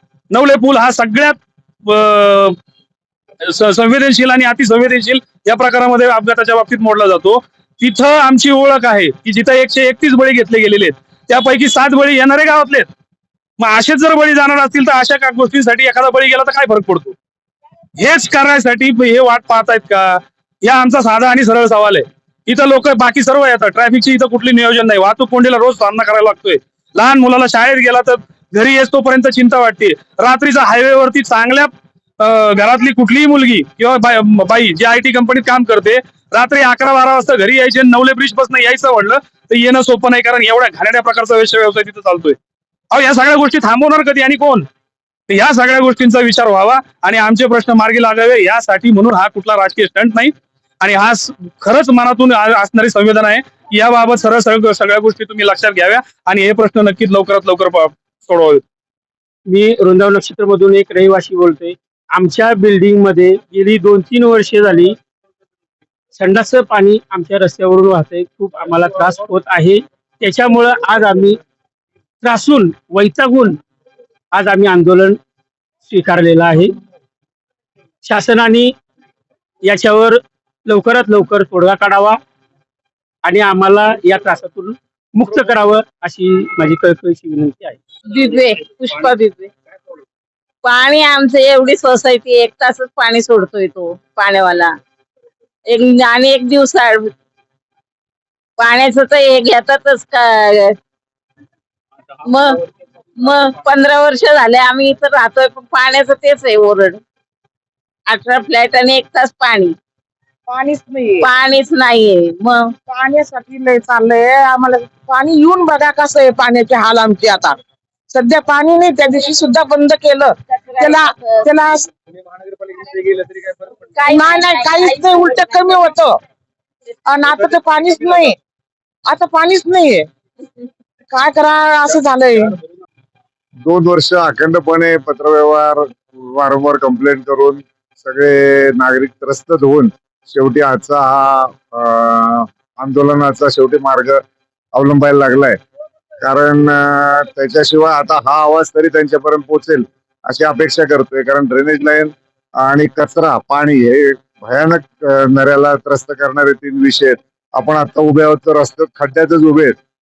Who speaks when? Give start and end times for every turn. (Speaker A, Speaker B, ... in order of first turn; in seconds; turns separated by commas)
Speaker A: 0.3-2.6, Speaker A: 3.4-12.9, Speaker A: 13.6-17.1, Speaker A: 18.0-42.4, Speaker A: 42.9-44.7, Speaker A: 45.3-58.6, Speaker B: 59.5-64.9, Speaker B: 66.2-71.4, Speaker B: 72.2-73.6, Speaker B: 74.3-75.2, Speaker B: 75.9-76.7, Speaker B: 78.0-78.7, Speaker B: 79.6-82.2, Speaker B: 83.2-87.8, Speaker C: 88.1-89.5, Speaker C: 90.6-94.7, Speaker C: 95.7-97.1, Speaker C: 98.6-100.8, Speaker C: 102.2-102.6, Speaker C: 103.2-107.0, Speaker C: 108.1-109.8, Speaker D: 110.5-111.3, Speaker C: 111.2-112.7, Speaker D: 112.9-117.5, Speaker D: 118.1-121.9, Speaker C: 120.5-121.5, Speaker C: 124.0-125.9, Speaker D: 124.1-126.2, Speaker D: 127.1-128.4, Speaker D: 129.1-130.1, Speaker D: 131.1-132.5, Speaker E: 133.7-144.2, Speaker E: 144.7-145.6, Speaker E: 146.2-159.8